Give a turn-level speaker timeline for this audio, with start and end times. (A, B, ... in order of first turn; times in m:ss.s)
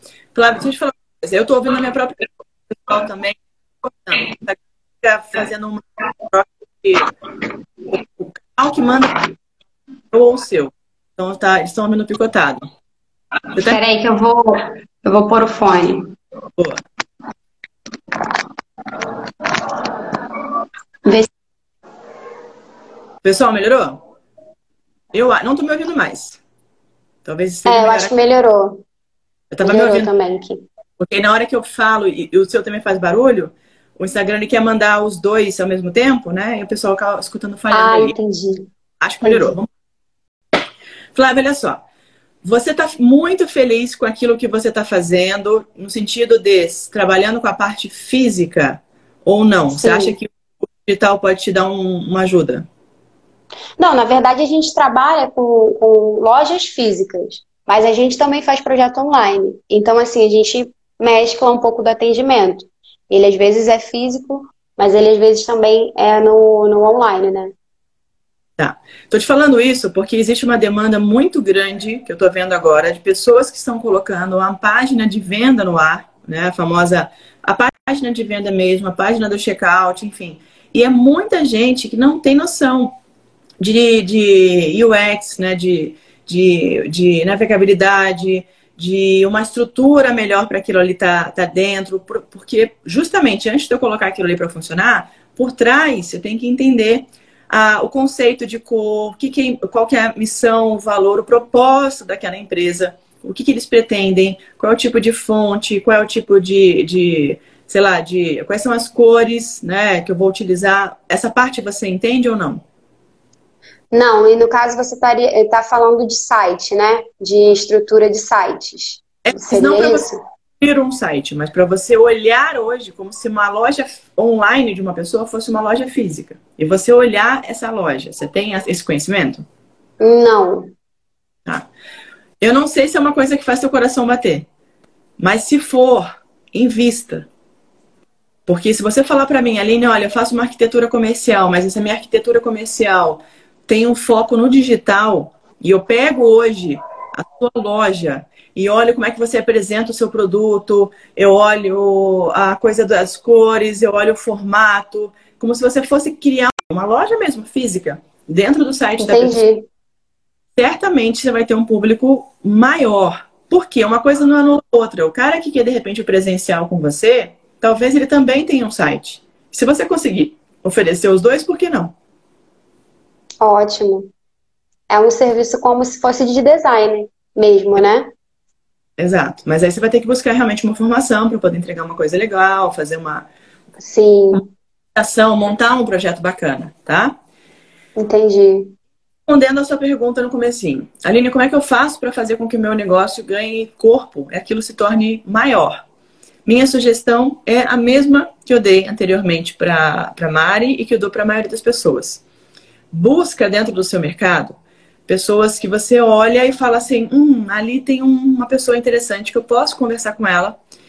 0:00.4-0:07.1 A
0:07.9-0:09.3 A
0:10.1-0:12.7 A
0:13.5-0:13.8 A
0:13.6-0:16.1 B
0:23.2-0:24.0 A
0:25.1-0:26.4 A
0:27.2-0:28.1 A
0:27.7-0:28.8 B
0:29.5-0:30.1 A
0:29.6-0:30.6 B
0:31.0-0:38.1 A
0:37.7-0:38.7 B
0:39.0-0:39.7 A
0:39.2-0:39.6 B
0:41.2-0:41.8 A
0:42.4-0:52.7 A
0:49.8-0:50.2 B
0:53.8-1:07.5 B
1:08.6-1:22.9 A
1:23.6-1:52.6 A
1:53.9-2:00.2 B
1:59.2-2:00.1 A
2:00.6-2:09.4 A
2:10.0-2:10.7 B
2:12.4-2:14.5 A
2:15.2-2:17.3 A
2:18.5-2:39.4 A
2:39.0-2:39.7 B
2:40.6-2:52.0 A
2:53.4-2:54.1 B
2:54.9-2:58.1 B
2:59.0-3:03.3 A
3:03.8-3:04.4 B
3:05.0-3:07.2 A
3:08.0-3:08.7 B
3:09.3-3:15.8 A
3:16.5-3:22.2 A
3:22.9-3:30.6 A